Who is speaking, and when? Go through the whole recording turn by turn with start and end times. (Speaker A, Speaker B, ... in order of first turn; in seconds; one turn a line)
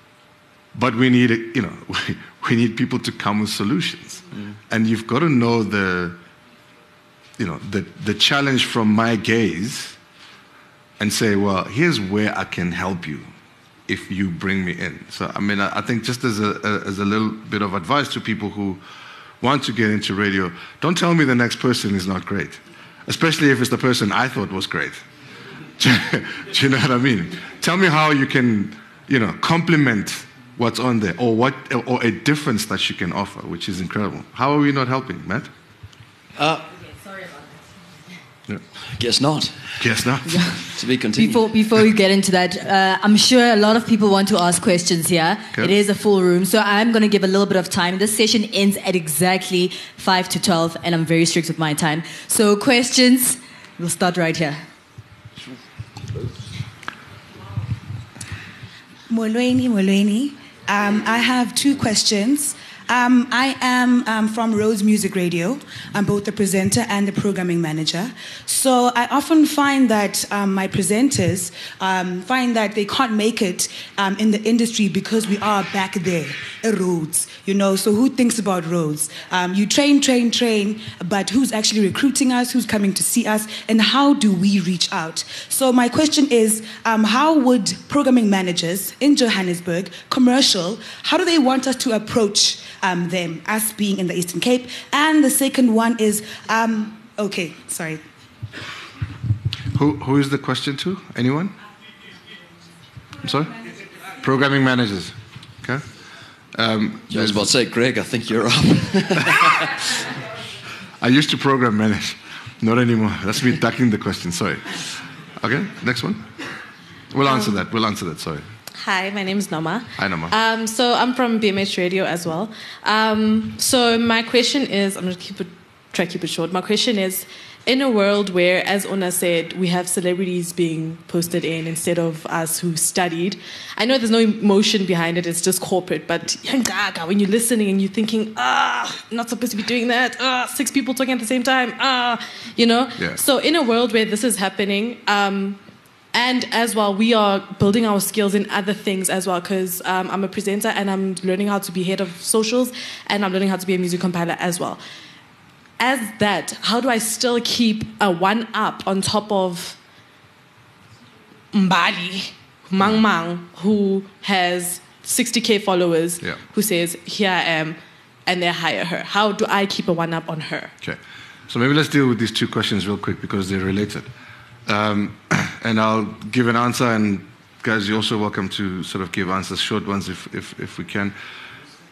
Speaker A: 0.7-6.2
Speaker A: 7.4-10.0
Speaker A: 11.0-13.3
Speaker A: 13.9-18.8
Speaker A: 19.4-25.0
Speaker A: 25.8-35.5
Speaker B: 36.4-36.6
Speaker B: 38.9-39.9
Speaker A: 39.8-40.6
Speaker B: 40.5-41.4
Speaker C: 41.1-54.6
Speaker D: 59.1-98.0
Speaker A: 99.7-101.5
Speaker A: 103.2-103.6
Speaker A: 104.2-105.9
Speaker A: 106.5-107.5
Speaker B: 107.1-109.8
Speaker A: 111.0-116.3
Speaker A: 117.1-118.5
Speaker E: 117.3-117.5
Speaker E: 118.8-145.6
Speaker A: 120.0-120.3
Speaker E: 146.1-154.8
Speaker E: 155.8-159.8
Speaker E: 161.5-170.7
Speaker A: 170.8-174.1
Speaker A: 174.7-181.1